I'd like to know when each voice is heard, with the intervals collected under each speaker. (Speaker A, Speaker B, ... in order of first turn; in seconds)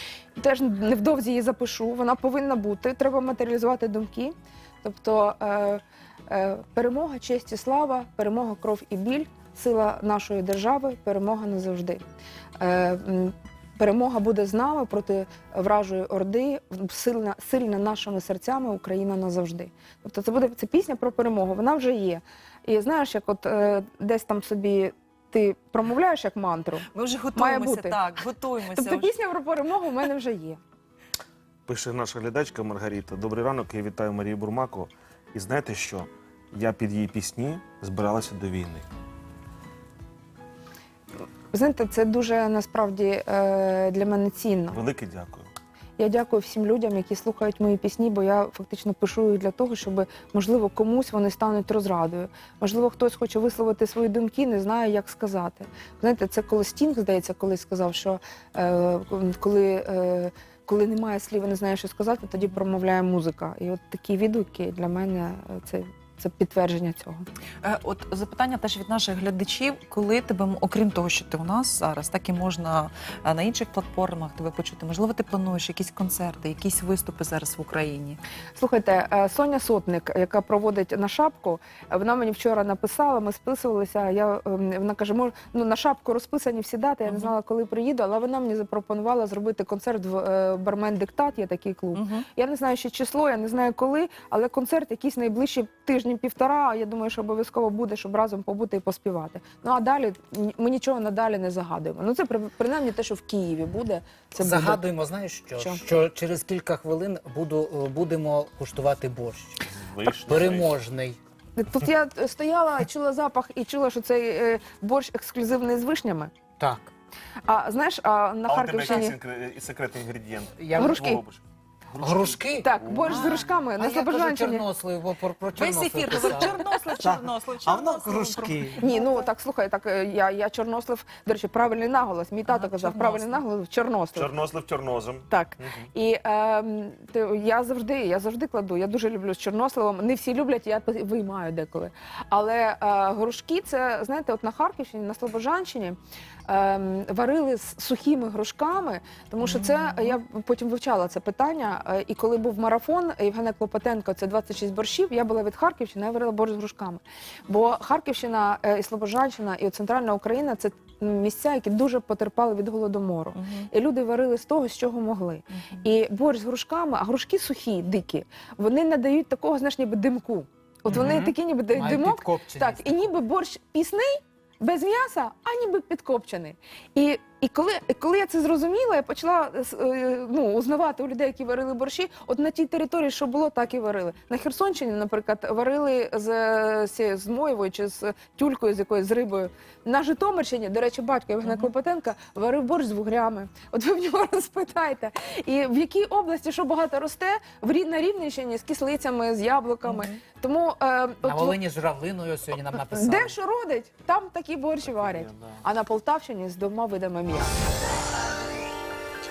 Speaker A: 0.4-12.0, 12.6-28.0, 28.7-30.6, 41.5-44.8, 46.0-67.2, 78.6-104.8, 105.5-105.8, 111.6-116.3, 117.5-119.2, 120.8-121.2, 122.6-124.7, 128.8-134.3, 135.3-201.6, 202.9-207.7
Speaker B: 26.9-29.1, 67.6-78.2, 87.1-87.3, 91.9-92.3, 125.6-128.9, 132.5-133.4, 149.4-150.2, 163.4-163.7
Speaker C: 31.7-38.9, 44.7-45.5, 109.7-110.7, 118.5-121.4, 121.9-123.2, 134.2-135.9
Speaker D: 104.4-111.2, 116.6-116.9, 120.6-121.0, 122.0-128.8, 170.9-173.1, 201.2-203.4